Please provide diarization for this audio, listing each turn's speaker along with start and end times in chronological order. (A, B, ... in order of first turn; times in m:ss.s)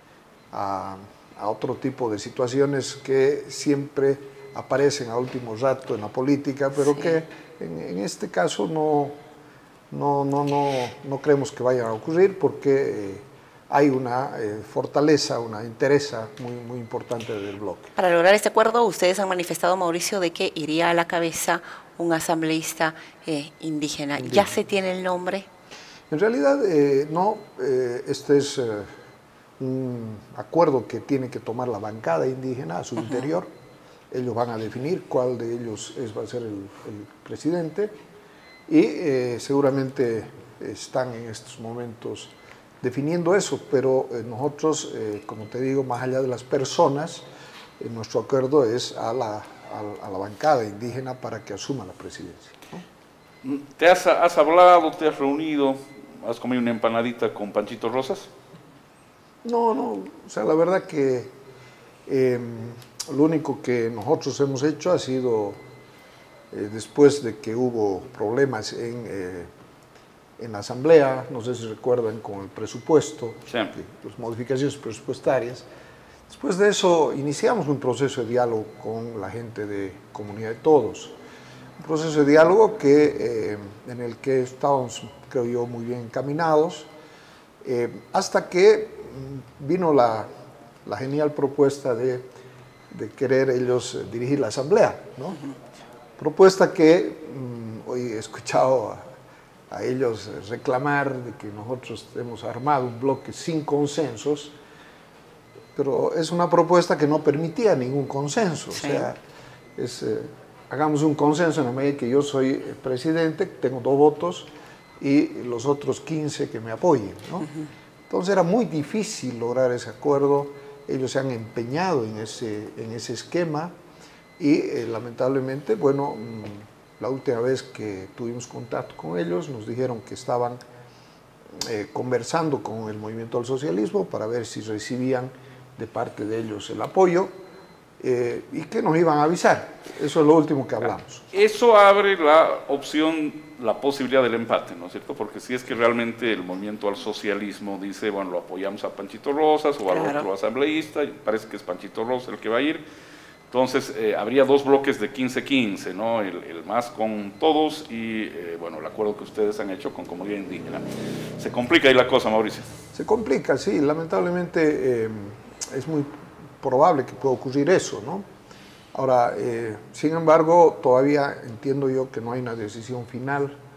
0:00.5-0:09.2 A
0:09.9-0:17.9 A
0:18.0-0:25.5 B
0:24.2-0:24.5 A
0:26.1-0:28.9 A
0:29.6-0:33.5 A
0:34.1-0:38.0 A
0:38.7-0:47.3 A
0:47.8-0:52.8 A
0:53.4-0:58.3 C
0:59.4-1:01.3 A
1:02.1-1:05.6 A
1:06.5-1:09.5 A
1:10.4-1:15.7 A
1:13.5-1:13.7 C
1:16.3-1:21.2 A
1:21.8-1:26.9 A
1:27.6-1:30.3 A
1:30.8-1:32.2 A
1:32.9-1:35.4 A
1:36.2-1:39.1 A
1:39.7-1:44.6 A
1:45.8-1:49.2 A
1:48.7-1:49.1 B
1:49.8-1:57.5 A
1:58.1-2:03.7 A
2:04.4-2:10.6 A
2:11.6-2:17.3 A
2:18.0-2:21.2 A
2:21.3-2:32.8 C
2:29.9-2:30.3 B
2:33.5-2:40.8 C
2:41.4-2:42.7 C
2:42.9-2:48.3 A
2:48.9-2:53.6 A